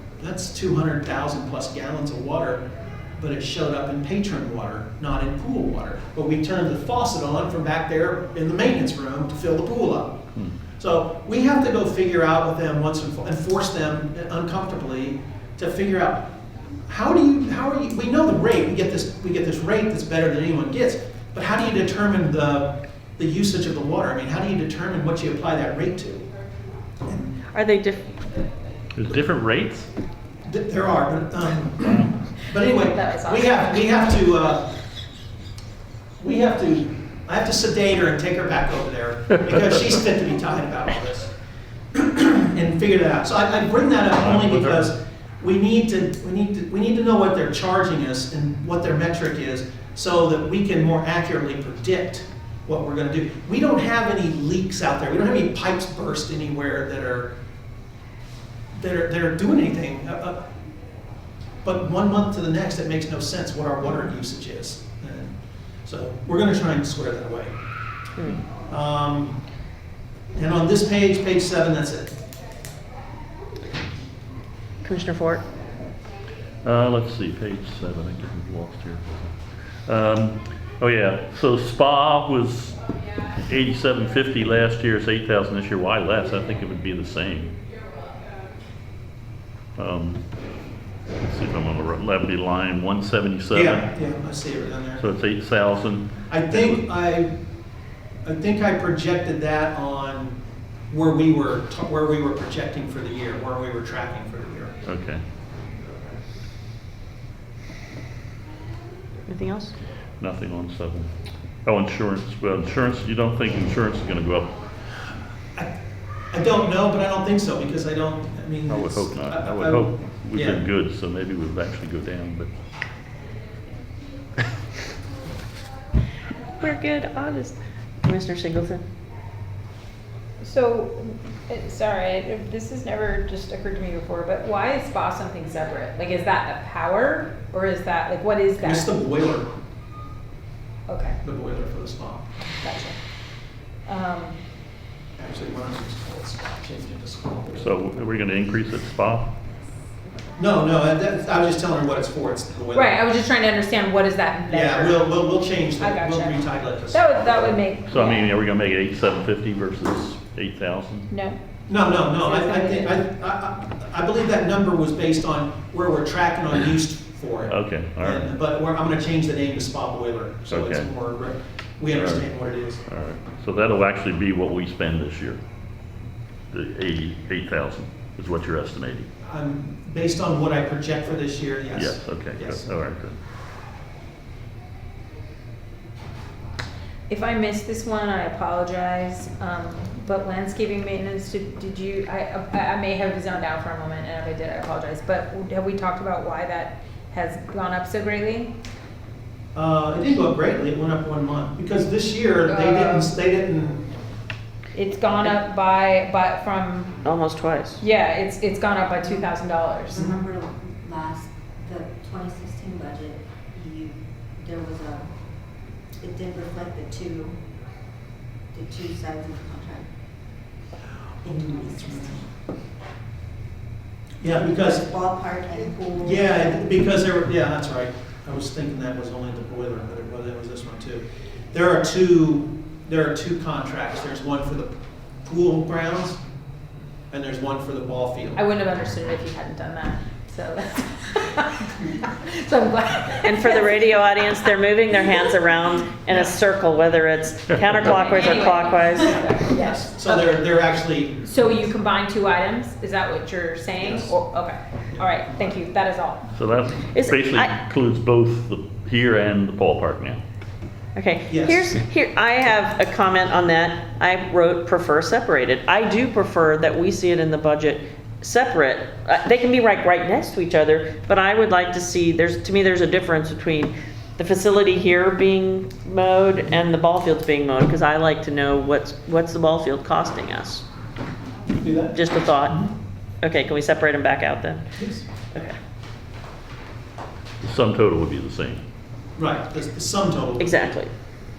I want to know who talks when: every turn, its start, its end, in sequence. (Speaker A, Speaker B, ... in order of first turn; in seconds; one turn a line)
Speaker A: 0.2-2.6
Speaker A: 3.2-10.2
Speaker A: 10.8-16.3
Speaker A: 16.9-26.3
Speaker A: 27.1-27.4
Speaker B: 27.5-28.1
Speaker C: 28.9-29.9
Speaker A: 30.5-34.8
Speaker D: 32.8-33.8
Speaker A: 36.2-41.3
Speaker A: 41.9-57.3
Speaker C: 44.2-44.9
Speaker A: 58.7-60.4
Speaker A: 61.6-67.5
Speaker A: 68.6-69.4
Speaker A: 70.4-72.2
Speaker B: 74.8-75.4
Speaker C: 76.6-87.5
Speaker C: 89.8-90.2
Speaker C: 91.2-93.9
Speaker A: 93.5-95.0
Speaker C: 95.0-96.8
Speaker A: 96.3-97.3
Speaker A: 98.2-100.4
Speaker A: 100.9-104.8
Speaker C: 104.8-105.2
Speaker B: 109.3-109.7
Speaker C: 110.2-111.1
Speaker C: 111.6-114.6
Speaker A: 116.3-120.6
Speaker C: 118.7-122.5
Speaker B: 126.6-128.8
Speaker D: 130.4-138.9
Speaker A: 138.6-139.5
Speaker D: 140.9-141.2
Speaker A: 141.2-142.3
Speaker D: 142.6-143.0
Speaker D: 143.9-144.4
Speaker A: 145.2-147.7
Speaker C: 147.6-149.3
Speaker A: 150.4-152.9
Speaker D: 152.7-155.2
Speaker A: 154.5-157.6
Speaker D: 155.8-158.3
Speaker C: 157.9-161.1
Speaker D: 161.1-161.4
Speaker A: 161.7-172.8
Speaker D: 162.2-163.0
Speaker C: 167.5-168.3
Speaker C: 170.5-170.9
Speaker C: 171.9-172.3
Speaker C: 172.8-175.4
Speaker C: 176.5-179.1
Speaker A: 179.2-182.7
Speaker C: 181.7-183.2
Speaker D: 187.1-198.5
Speaker A: 199.6-203.9
Speaker D: 202.5-203.1
Speaker D: 204.7-207.0
Speaker B: 207.1-207.8
Speaker D: 207.8-210.2
Speaker E: 209.9-215.1
Speaker E: 216.0-217.4
Speaker E: 218.5-219.9
Speaker A: 221.2-222.3
Speaker A: 224.2-224.8
Speaker E: 224.3-226.7
Speaker A: 226.0-234.7
Speaker A: 235.2-236.2
Speaker A: 237.1-238.4
Speaker D: 238.4-244.1
Speaker B: 243.2-249.4
Speaker A: 246.1-246.3
Speaker D: 247.8-250.2
Speaker A: 249.0-251.5
Speaker D: 251.2-256.3
Speaker A: 253.8-254.2
Speaker A: 254.9-255.6
Speaker C: 256.4-260.2
Speaker B: 256.9-257.6
Speaker B: 261.0-280.6
Speaker A: 261.3-261.8
Speaker A: 281.5-282.7
Speaker B: 281.9-282.6
Speaker B: 283.2-284.6
Speaker A: 284.8-285.1
Speaker C: 287.4-288.6
Speaker A: 289.2-290.7
Speaker B: 290.4-290.9